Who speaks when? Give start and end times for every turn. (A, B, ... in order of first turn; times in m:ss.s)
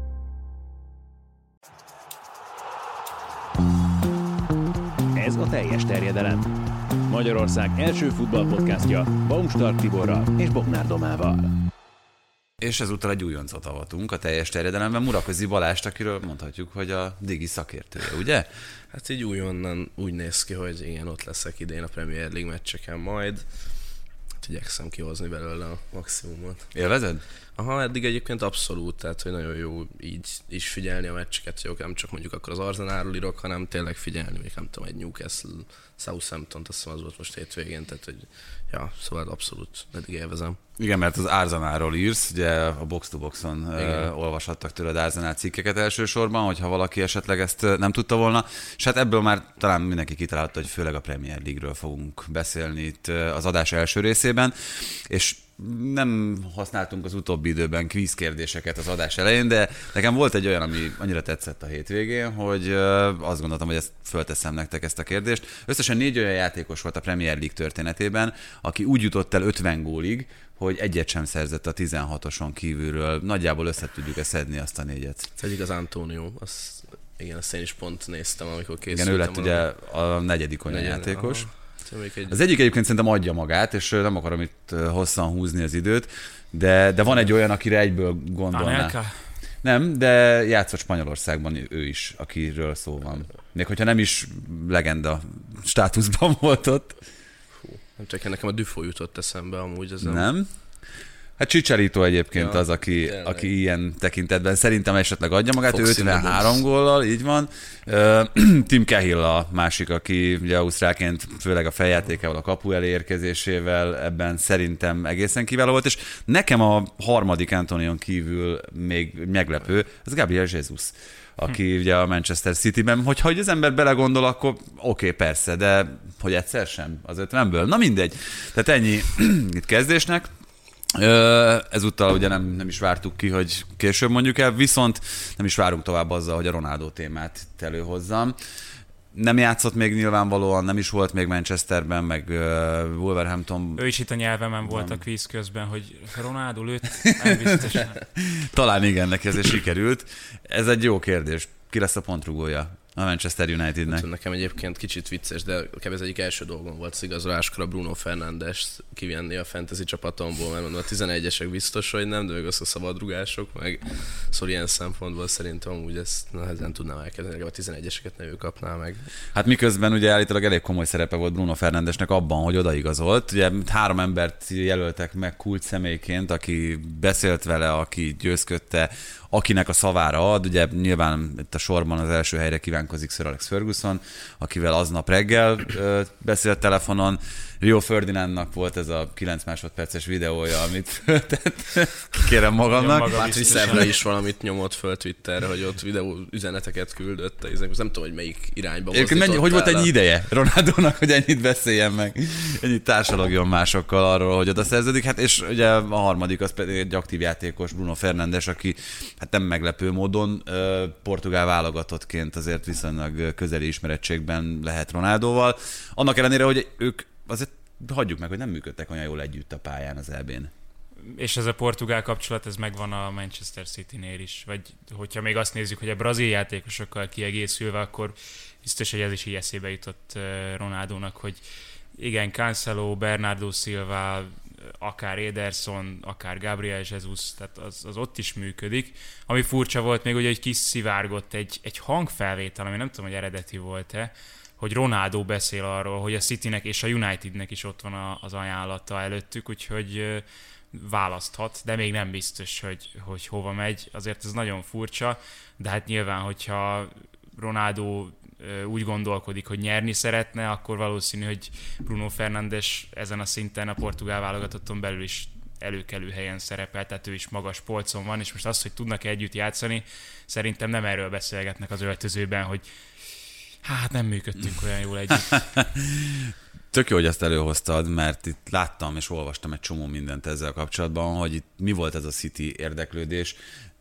0:05.2-0:06.5 A
0:07.1-0:11.5 A
0:12.6-0:18.5 B
0:18.9-0:23.4 C
0:24.4-0:26.7 C
0:26.7-0:27.2 B
0:27.6-0:40.6 C
0:40.8-1:15.3 B
0:43.8-0:44.1 C
1:15.4-1:19.6 C
1:18.9-1:21.5 B
1:20.7-1:22.4 C
1:22.3-1:28.9 B
1:28.5-1:29.1 D
1:29.6-1:36.9 B
1:37.6-1:40.2 C
1:40.0-1:40.5 B
1:41.4-2:10.3 B
1:42.3-1:43.5 C
1:45.7-1:46.6 C
2:10.9-2:18.4 B
2:19.1-2:23.8 B
2:23.8-2:28.0 D
2:24.6-2:25.0 B
2:27.0-2:34.0 B
2:33.9-2:49.1 C
2:49.3-3:13.8 B
3:12.7-3:14.0 D
3:13.1-3:19.9 C
3:18.9-3:40.5 B
3:41.0-3:51.4 D
3:52.0-4:32.6 D
4:33.6-4:35.4 D
4:35.3-4:43.4 B